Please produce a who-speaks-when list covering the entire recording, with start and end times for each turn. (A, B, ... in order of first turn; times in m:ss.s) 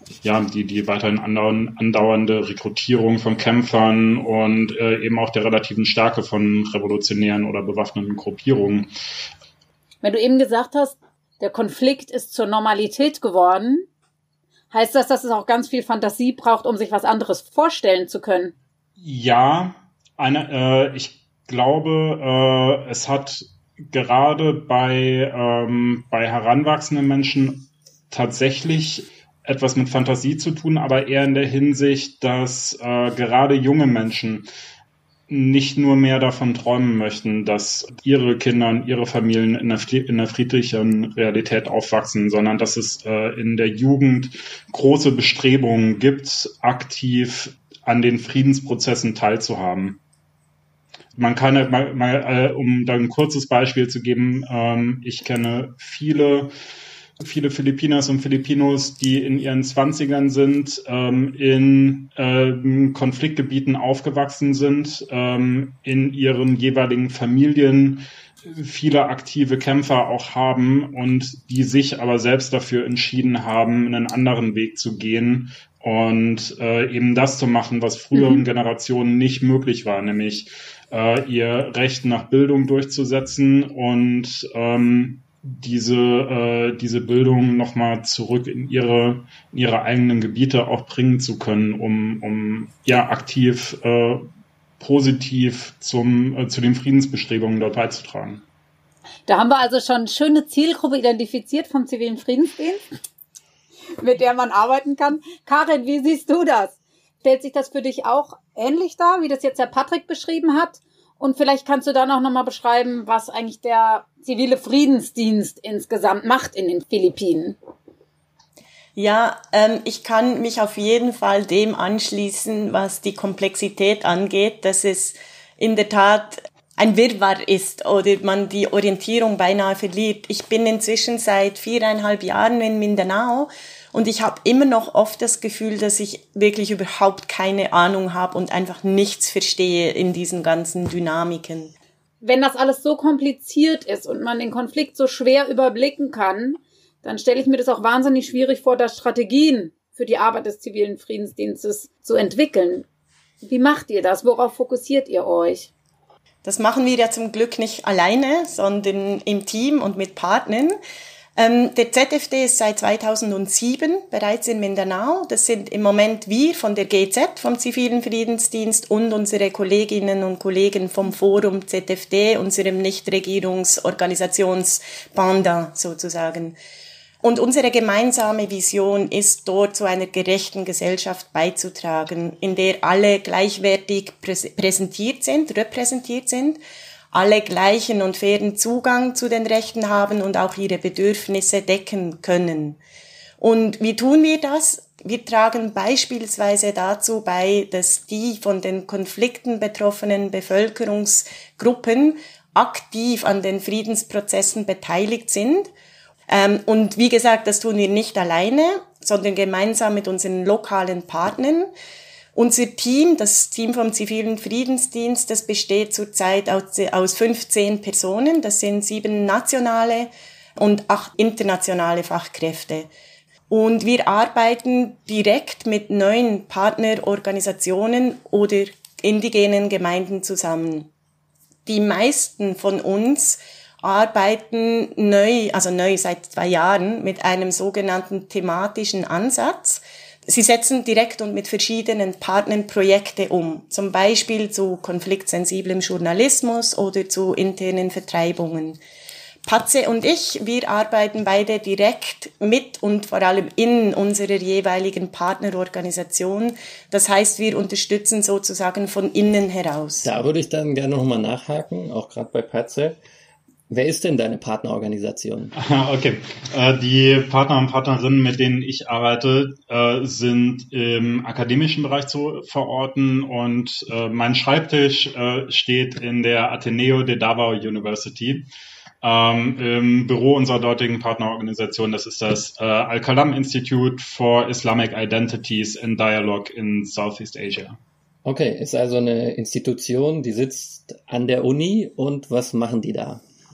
0:00.2-0:08.9 A
0:10.0-0:13.9 B
0:14.7-0:18.5 B
0:19.0-0:34.5 A
0:35.3-0:50.0 A
0:51.2-0:56.5 A
0:57.2-1:34.3 A
1:18.2-1:18.4 B
1:34.8-1:38.4 A
1:39.3-1:42.8 B
1:44.0-1:57.6 B
1:59.0-2:21.7 C
2:22.2-2:32.9 B
2:33.4-2:35.7 B
2:36.4-2:40.8 C
2:41.4-2:56.6 C
2:57.2-3:06.6 C
3:07.1-3:12.8 C
3:13.4-3:25.7 C
3:26.3-3:31.7 C
3:32.4-3:42.9 C
3:43.5-3:50.9 C
3:51.7-4:08.8 C
4:09.5-4:20.1 C
4:20.0-4:23.0 D
4:23.7-4:25.5 D
4:25.6-4:38.5 A
4:39.0-4:47.8 A
4:48.2-4:53.2 D